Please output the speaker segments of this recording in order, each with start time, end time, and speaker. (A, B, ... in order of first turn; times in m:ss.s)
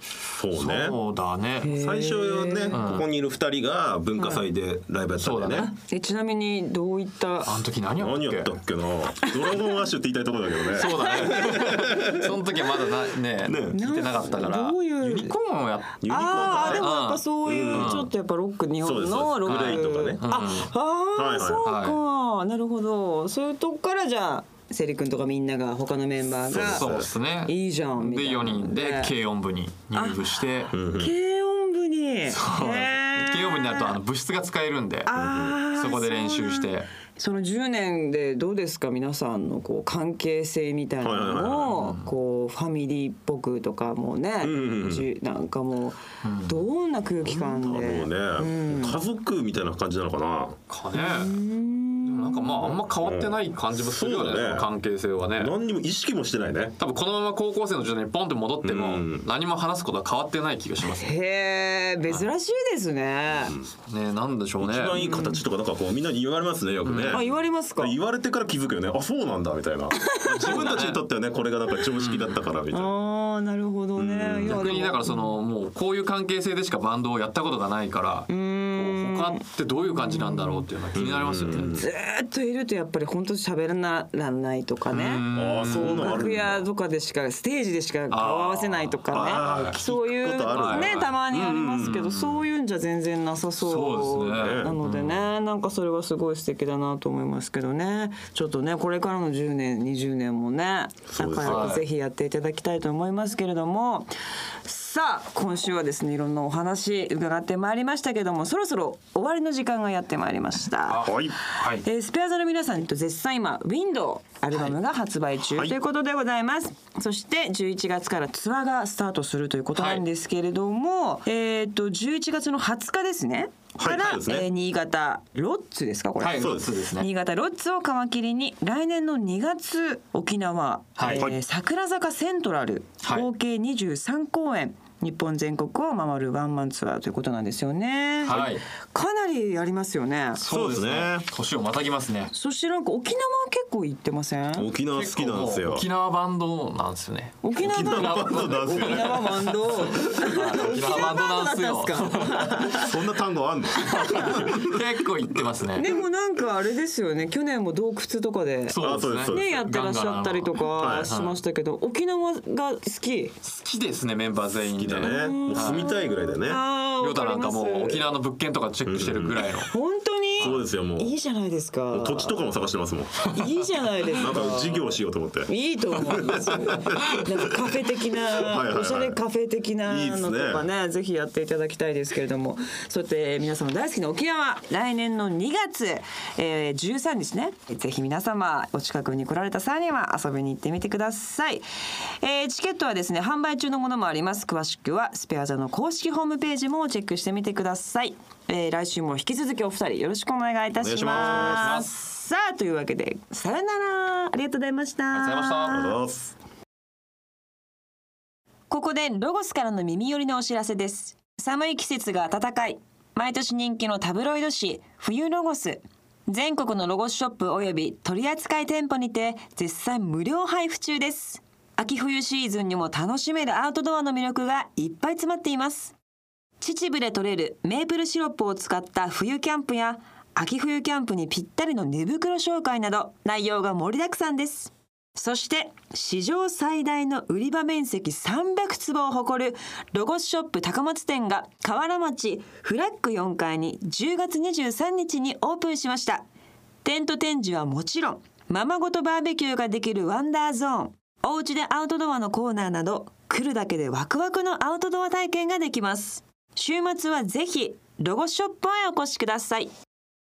0:00.3-0:01.0 A
0:00.5-0:01.8 B
0:01.6-0:02.8 C
0:01.7-0:05.7 A
0:02.7-0:03.1 B
0:04.2-0:04.4 C
0:05.2-0:05.7 B
0:05.6-0:07.6 C
0:07.4-0:08.6 B
0:08.0-0:12.4 A
0:10.7-0:18.1 B
0:11.0-0:11.4 C
0:13.4-0:13.9 A
0:13.7-0:15.4 C
0:16.0-0:16.9 A
0:16.1-0:26.9 C
0:17.5-0:18.1 A
0:18.8-0:20.2 A
0:19.5-0:20.7 B
0:21.2-0:21.6 A
0:21.6-0:22.0 B
0:26.5-0:27.1 A
0:26.5-0:30.7 B
0:27.4-0:29.1 C
0:29.9-0:30.2 C
0:30.7-0:31.1 A
0:30.8-0:34.0 C
0:32.3-0:35.1 B
0:35.1-0:49.0 C
0:35.2-0:35.6 A
0:35.7-0:36.9 B
0:41.0-0:41.8 A
0:44.4-0:45.1 A
0:46.2-0:46.6 B
0:47.3-0:50.6 A
0:50.7-0:51.4 B
0:50.9-0:52.8 C
0:52.1-0:55.5 B
0:53.0-0:54.7 A
0:55.4-0:56.8 A
0:56.8-1:01.1 B
0:58.6-0:59.2 A
1:00.8-1:03.6 C
1:03.9-1:05.0 B
1:04.6-1:12.9 A
1:05.0-1:05.4 C
1:06.8-1:07.2 B
1:07.1-1:08.0 C
1:10.1-1:10.8 C
1:10.3-1:11.0 B
1:12.0-1:12.4 B
1:12.7-1:15.4 C
1:14.0-1:14.8 A
1:14.5-1:21.8 B
1:18.3-1:20.7 C
1:21.0-1:21.9 A
1:21.6-1:44.1 C
1:24.9-1:26.3 B
1:25.3-1:26.6 A
1:28.1-1:29.8 B
1:29.1-1:32.0 A
1:30.5-1:31.2 B
1:31.7-1:32.4 B
1:33.6-1:35.3 B
1:34.4-1:34.8 A
1:41.1-1:41.7 A
1:41.4-1:41.8 B
1:44.6-2:20.4 C
1:50.9-1:51.8 B
1:51.0-1:51.4 A
1:55.5-1:55.8 A
1:59.8-2:00.0 B
2:03.8-2:04.5 A
2:06.2-2:07.1 B
2:06.4-2:06.7 A
2:11.0-2:11.3 B
2:11.0-2:11.4 A
2:18.2-2:18.6 B
2:20.4-2:22.3 B
2:20.5-2:21.3 A
2:22.3-2:24.7 C
2:24.6-2:25.8 A
2:25.0-2:32.6 B
2:27.4-2:32.9 C
2:27.6-2:29.4 A
2:32.6-2:34.8 A
2:33.8-2:34.7 C
2:33.9-2:35.9 B
2:35.8-2:43.4 C
2:38.7-2:41.4 B
2:38.8-2:39.6 A
2:40.8-2:41.1 A
2:43.4-2:45.9 B
2:44.6-2:46.6 A
2:45.0-2:48.1 C
2:47.0-2:49.7 B
2:48.9-2:49.6 A
2:49.7-2:52.4 C
2:50.4-2:51.1 A
2:51.9-2:53.3 A
2:53.3-3:11.6 C
2:54.2-2:57.2 A
2:58.3-2:59.2 A
2:59.9-3:00.6 A
3:12.2-3:25.9 C
3:20.8-3:21.8 A
3:21.1-3:21.9 B
3:25.1-3:25.9 B
3:25.7-3:26.4 A
3:28.7-3:46.0 C
3:46.6-4:06.3 C
4:06.8-4:19.7 C